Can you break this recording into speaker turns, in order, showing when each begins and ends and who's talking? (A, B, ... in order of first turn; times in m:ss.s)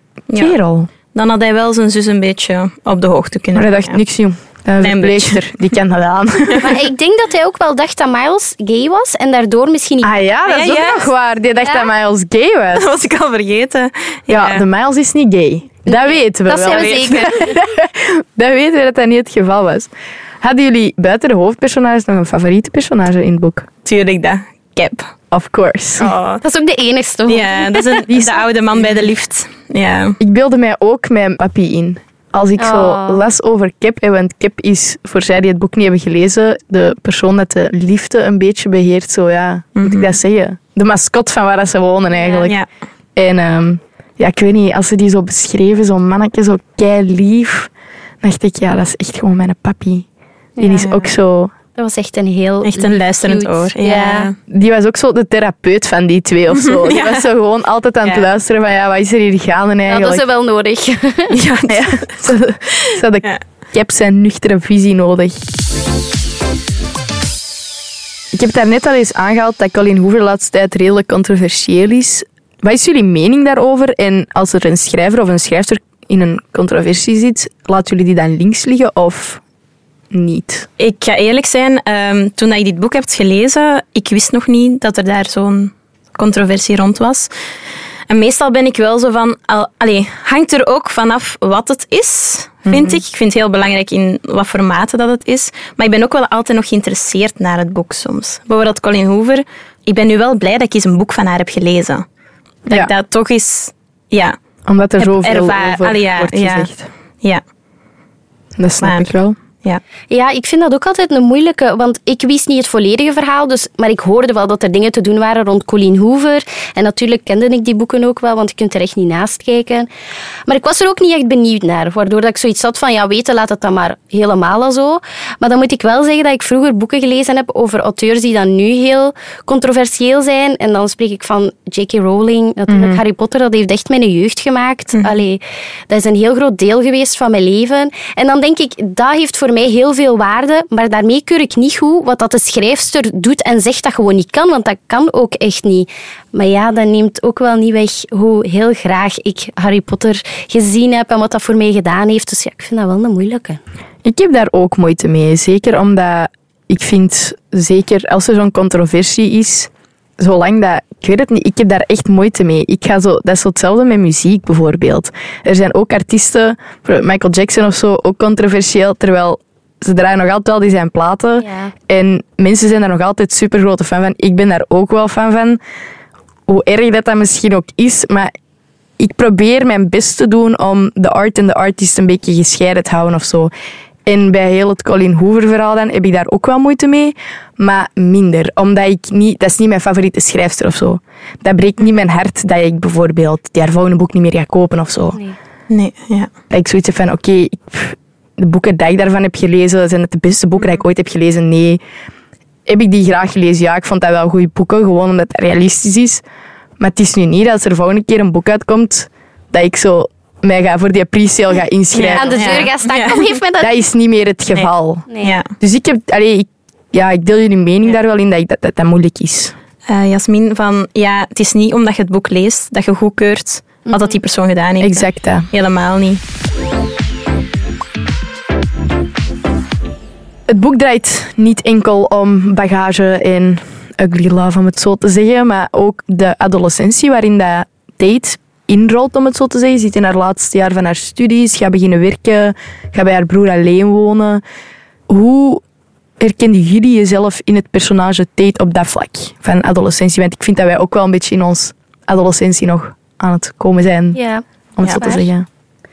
0:00.3-0:00.9 A
0:01.1-0:04.0 B
0:03.5-0:06.8 A
0:04.8-0:05.4 B
0:06.6-0:10.1 C
0:10.0-0:12.9 A
0:10.4-0:11.1 B
0:11.6-0:11.9 C
0:12.7-0:14.6 B
0:14.3-0:23.7 A
0:15.9-0:17.6 C
0:16.7-0:17.1 B
0:23.8-0:25.1 B
0:25.3-0:26.1 A
0:26.0-0:26.4 B
0:26.4-0:28.0 C
0:27.3-0:30.2 B
0:28.1-0:28.8 A
0:30.2-0:42.6 A
0:32.6-0:33.2 C
0:39.8-0:40.2 B
0:42.1-0:42.5 C
0:43.2-0:47.7 A
0:48.2-0:50.0 A
0:50.6-0:50.9 C
0:50.6-0:51.5 A
0:50.7-0:51.1 B
0:51.7-0:54.3 C
0:52.6-0:54.3 B
0:54.5-1:00.2 A
0:56.5-0:57.3 B
0:59.9-1:01.3 C
1:01.3-1:03.4 B
1:01.7-1:05.4 A
1:08.3-1:19.4 A
1:20.1-1:20.7 A
1:20.8-1:27.3 B
1:28.1-1:42.0 B
1:32.7-1:33.0 A
1:42.7-1:44.4 B
1:44.6-1:46.9 A
1:45.0-1:46.7 B
1:48.6-1:49.4 A
1:48.8-1:49.1 B
1:50.1-1:59.9 C
2:00.5-2:33.6 C
2:12.7-2:13.0 A
2:34.0-2:55.6 A
2:51.4-2:51.7 C
2:56.5-2:58.3 A
2:59.0-3:03.5 A
3:04.0-3:15.2 A
3:15.7-3:16.3 B
3:16.5-3:21.8 A
3:22.6-3:26.2 A
3:26.8-3:32.7 A
3:31.9-3:33.4 B
3:32.1-3:33.7 C
3:33.6-3:39.5 A
3:35.1-3:35.4 C
3:35.2-3:35.5 B
3:39.9-3:46.2 B
3:43.9-3:44.2 C
3:44.8-3:45.5 A
3:50.5-4:04.4 A
4:05.1-4:05.6 A
4:06.2-4:14.2 A
4:14.1-4:15.3 C
4:14.8-4:15.4 A